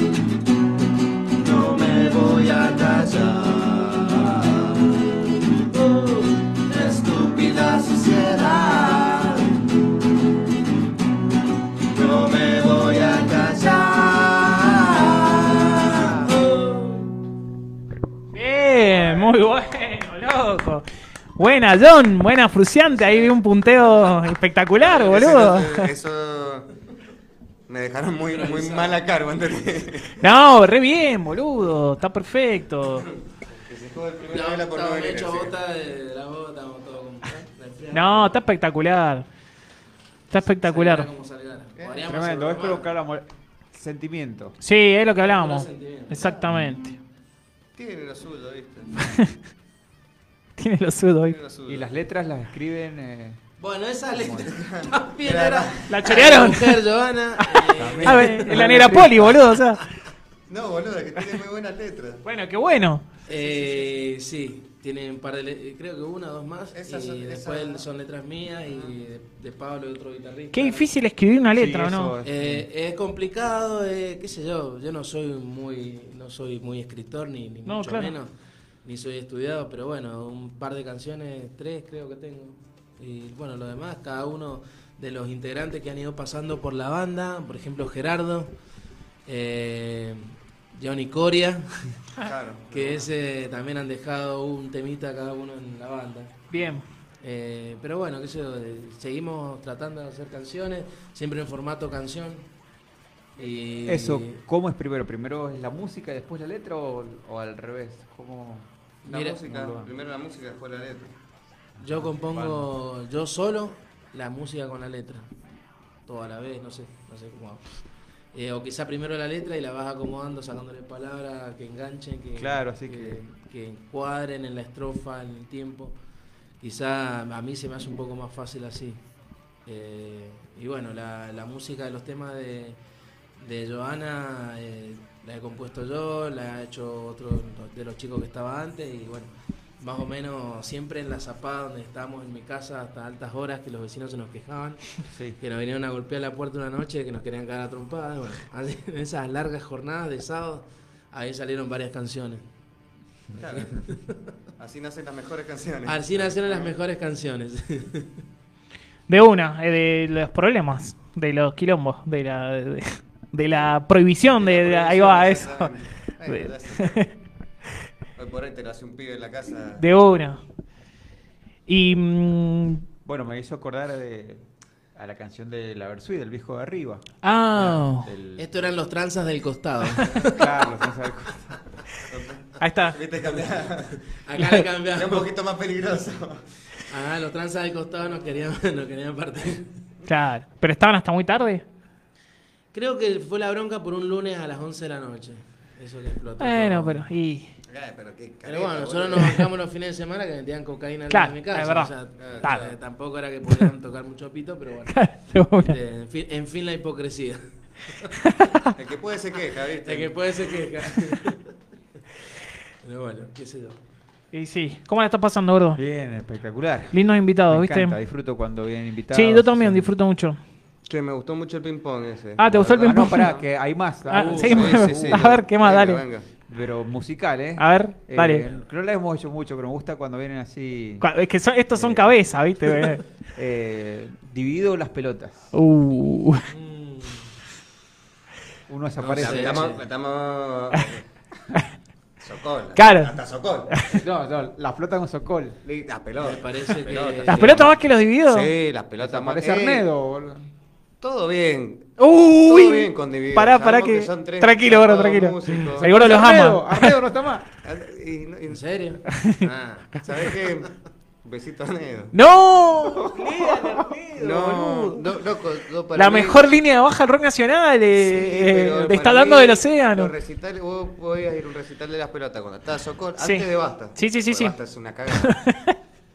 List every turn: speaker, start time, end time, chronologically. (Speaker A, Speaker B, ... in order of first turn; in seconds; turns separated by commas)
Speaker A: 1.4-4.7, Speaker A: 5.7-9.5, Speaker A: 11.9-17.0, Speaker B: 18.3-20.8, Speaker B: 21.4-25.9, Speaker C: 23.0-23.3, Speaker C: 24.8-26.7, Speaker C: 27.7-30.1, Speaker D: 28.3-29.0, Speaker B: 30.2-33.1, Speaker C: 33.5-35.5, Speaker D: 34.3-38.4, Speaker B: 37.9-39.2, Speaker B: 40.3-41.1, Speaker D: 40.5-42.8, Speaker C: 41.8-42.1, Speaker E: 42.0-44.5, Speaker B: 44.6-47.0, Speaker D: 45.2-46.4, Speaker C: 47.8-49.0, Speaker B: 49.0-49.3, Speaker B: 50.6-51.4, Speaker C: 51.3-51.9, Speaker E: 51.6-53.4, Speaker D: 53.6-58.9, Speaker E: 54.1-54.5, Speaker C: 54.5-56.4, Speaker B: 55.9-56.8, Speaker E: 57.7-59.4, Speaker B: 58.0-59.8, Speaker C: 60.5-62.2, Speaker B: 62.2-63.0, Speaker D: 63.3-70.9, Speaker C: 63.3-63.9, Speaker C: 66.7-67.8, Speaker C: 68.7-68.9, Speaker B: 70.5-72.1, Speaker E: 71.5-72.7, Speaker D: 72.2-78.3, Speaker B: 77.7-78.1, Speaker D: 78.8-88.5, Speaker D: 89.2-92.0, Speaker C: 92.2-93.1, Speaker D: 92.7-96.3, Speaker B: 96.5-96.8, Speaker D: 97.2-102.5, Speaker D: 103.4-104.3, Speaker E: 103.8-108.7, Speaker C: 109.0-111.1, Speaker D: 109.1-109.4, Speaker E: 109.3-109.9, Speaker E: 111.8-112.7, Speaker D: 111.8-115.3, Speaker D: 116.1-117.7, Speaker D: 118.3-125.9, Speaker E: 122.3-123.2, Speaker D: 126.6-129.0, Speaker D: 129.7-132.8, Speaker D: 133.4-152.4, Speaker E: 145.1-145.4, Speaker C: 153.4-153.7, Speaker D: 153.5-154.1, Speaker C: 154.6-156.7, Speaker D: 155.8-158.1, Speaker B: 159.1-165.7, Speaker C: 164.4-167.0, Speaker B: 166.3-167.1, Speaker C: 168.2-169.8, Speaker B: 169.8-170.4, Speaker B: 171.7-172.8, Speaker E: 173.0-178.5, Speaker B: 177.2-178.1, Speaker D: 178.4-180.5, Speaker E: 180.2-181.6, Speaker C: 182.1-184.0, Speaker B: 182.6-183.0, Speaker D: 184.2-185.3, Speaker C: 184.9-186.4, Speaker D: 186.9-189.7, Speaker B: 190.1-191.6, Speaker D: 192.7-197.1, Speaker B: 196.4-197.5, Speaker C: 197.7-199.4, Speaker D: 198.4-208.1, Speaker B: 201.1-202.6, Speaker C: 202.2-202.8, Speaker B: 204.9-205.8, Speaker B: 208.2-208.7, Speaker C: 208.8-210.6, Speaker D: 209.8-211.4, Speaker D: 212.8-213.8, Speaker B: 214.3-215.8, Speaker E: 215.7-219.9, Speaker B: 216.9-218.0, Speaker B: 219.1-220.4, Speaker C: 220.8-223.4, Speaker B: 222.4-223.3, Speaker E: 222.8-225.3, Speaker B: 224.1-226.0, Speaker C: 224.3-226.3, Speaker E: 226.5-231.1, Speaker B: 227.6-228.4, Speaker B: 231.0-233.0, Speaker E: 231.7-235.5, Speaker B: 235.5-236.4, Speaker D: 236.5-237.3, Speaker E: 238.7-239.7, Speaker D: 239.0-239.8, Speaker C: 239.1-241.0, Speaker C: 242.2-243.9, Speaker B: 242.8-243.1, Speaker E: 243.9-245.6, Speaker C: 245.6-247.7, Speaker D: 246.2-247.7, Speaker B: 247.3-248.5, Speaker C: 248.2-249.9, Speaker E: 249.0-250.4, Speaker C: 251.0-255.9, Speaker B: 252.0-256.9, Speaker E: 255.7-257.4, Speaker C: 257.6-258.6, Speaker D: 258.5-260.0, Speaker B: 259.2-259.4, Speaker C: 260.0-260.7, Speaker C: 261.2-262.1, Speaker B: 262.1-264.9, Speaker E: 262.8-264.3, Speaker C: 264.1-266.5, Speaker B: 265.9-270.1, Speaker C: 267.9-275.4, Speaker B: 273.2-274.6, Speaker B: 275.1-275.7